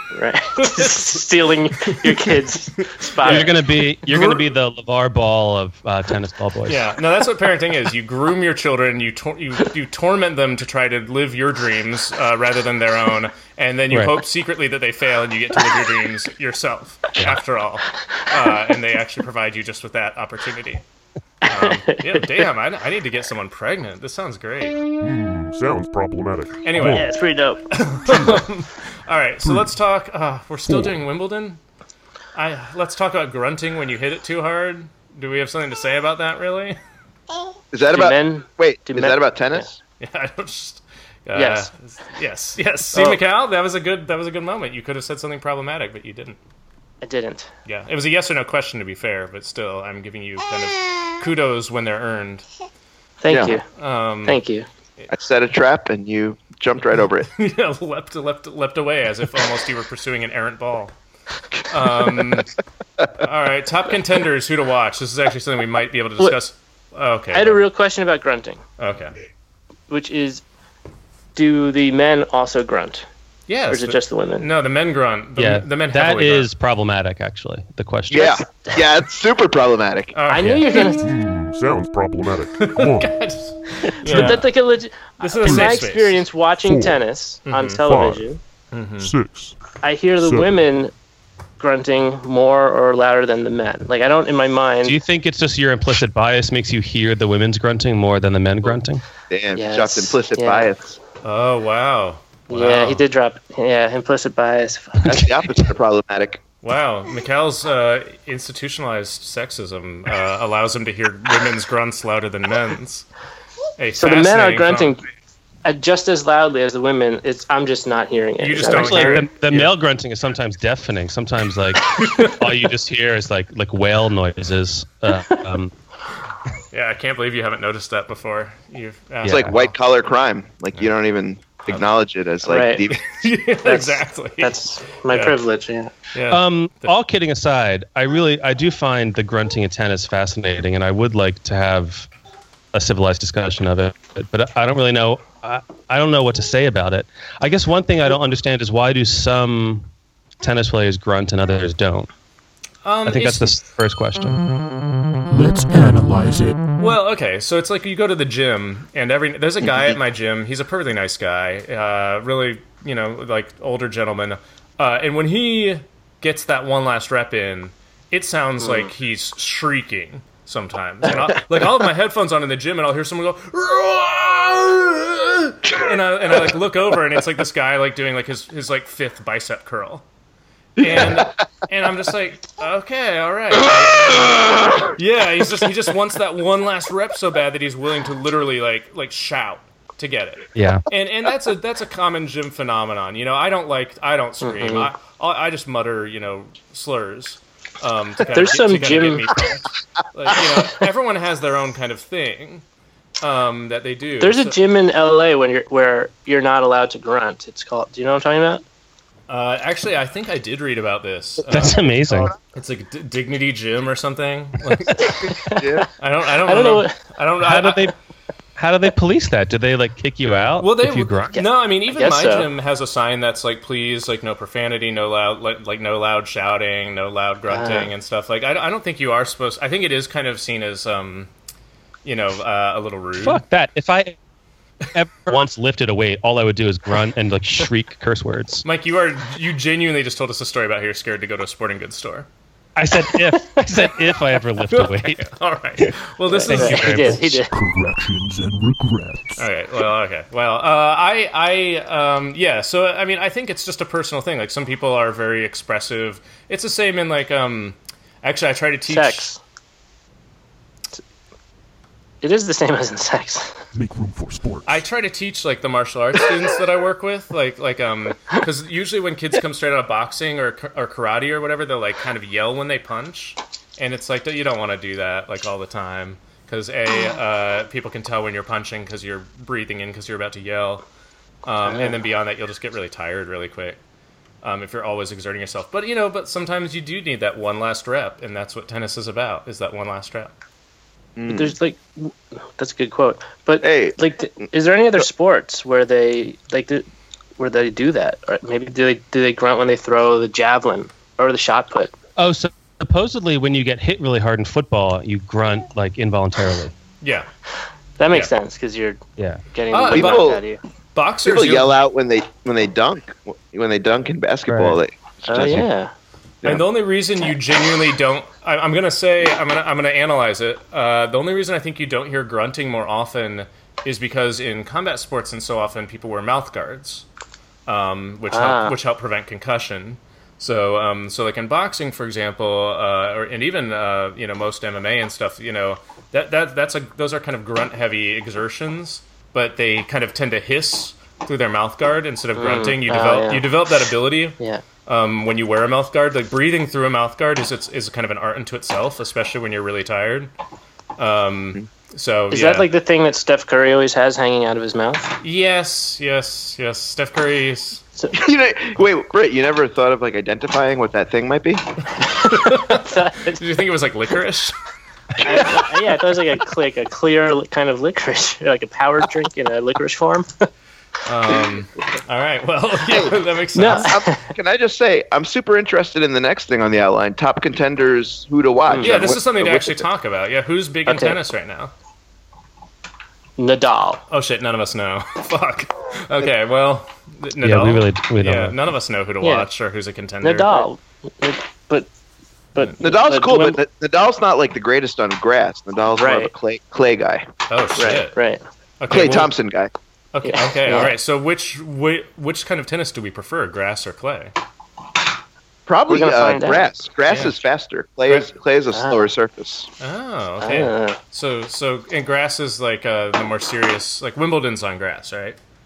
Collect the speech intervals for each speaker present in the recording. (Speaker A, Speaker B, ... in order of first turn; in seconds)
Speaker A: 0.1-3.5, 21.5-22.3, 26.8-27.7, 37.9-39.7, 41.4-41.7, 42.9-43.2, 47.0-47.5, 53.2-53.6, 54.3-54.7, 67.3-68.6, 69.9-70.4, 71.3-73.1, 73.7-74.5, 80.3-81.0, 84.0-88.4, 89.8-90.9, 91.6-95.0, 99.5-100.7, 102.5-105.2, 114.0-115.0, 115.6-119.3, 132.5-132.8, 133.7-135.9, 168.6-168.9, 194.4-194.9, 198.3-199.3, 204.2-208.6, 215.4-215.9, 216.4-217.0, 221.4-222.5, 227.5-227.9, 243.3-243.6, 246.3-247.5, 258.9-259.4, 262.2-263.6, 281.7-282.0, 291.3-296.9, 297.4-301.9, 308.0-309.0, 309.5-310.6, 315.3-315.9, 328.3-328.8, 342.4-343.4, 352.3-355.1, 362.1-363.4, 365.2-370.4, 373.6-374.3, 378.7-379.0, 380.9-381.2, 383.4-384.0, 389.2-389.5, 390.2-391.9, 392.6-393.6, 395.9-396.3, 397.8-398.4, 400.2-400.9, 405.9-406.7, 408.7-409.1, 410.4-411.0
Speaker B: 0.6-1.1, 2.8-3.5, 4.0-4.5, 6.7-20.8, 21.4-24.8, 26.6-27.1, 27.7-31.6, 32.4-36.8, 40.0-46.4, 47.7-52.5, 53.8-54.4, 57.3-60.9, 61.7-62.5, 63.2-67.6, 68.8-69.1, 73.5-76.5, 80.1-80.8, 82.6-84.5, 85.2-86.2, 87.5-87.8, 88.7-89.1, 101.2-103.0, 106.6-113.1, 113.8-115.0, 118.4-119.7, 122.0-122.4, 126.7-129.7, 132.9-134.6, 135.1-135.4, 136.1-137.0, 152.8-153.6, 156.8-180.0, 180.8-202.6, 203.2-204.6, 209.3-215.3, 216.0-217.9, 220.3-231.3, 232.1-233.4, 238.7-242.3, 244.7-247.3, 249.4-259.3, 264.7-280.8, 281.4-283.8, 284.4-290.3, 307.0-307.3, 309.7-310.3, 310.9-311.8, 316.4-327.1, 327.7-350.3, 351.0-352.7, 355.2-357.8, 362.3-364.6, 371.1-373.9, 378.8-381.7, 384.1-390.7, 397.5-398.2, 398.8-399.3, 400.1-404.3, 407.1-407.4, 409.8-415.4
Speaker C: 3.2-6.9, 13.9-14.2, 75.4-78.5, 94.8-99.0, 118.6-125.7, 129.2-129.6, 136.3-142.1, 142.7-149.9, 150.4-152.1, 153.1-154.4, 190.6-190.8, 211.5-212.3, 217.4-217.9, 218.6-221.4, 233.2-234.2, 234.9-238.7, 242.8-245.3, 246.5-247.3, 302.2-306.7, 314.5-314.8, 387.4-388.6
Speaker D: 25.0-27.1, 28.1-28.4, 29.4-29.8, 30.7-30.9, 80.7-83.2, 84.0-84.4, 85.4-85.9, 86.6-87.0, 87.8-88.2, 89.0-89.6, 90.2-90.6, 155.3-156.6, 247.5-249.4, 263.7-264.9
Speaker E: 37.7-39.8, 53.3-53.6, 55.1-57.3, 78.1-80.1, 99.3-101.0, 105.0-106.4, 129.2-133.1, 180.8-181.3, 184.6-184.9, 215.3-215.9, 291.2-291.6, 293.6-294.0, 309.9-310.4, 311.2-315.7, 358.1-361.6, 365.2-365.6, 372.9-379.9, 392.8-397.3, 398.9-399.7, 405.7-409.7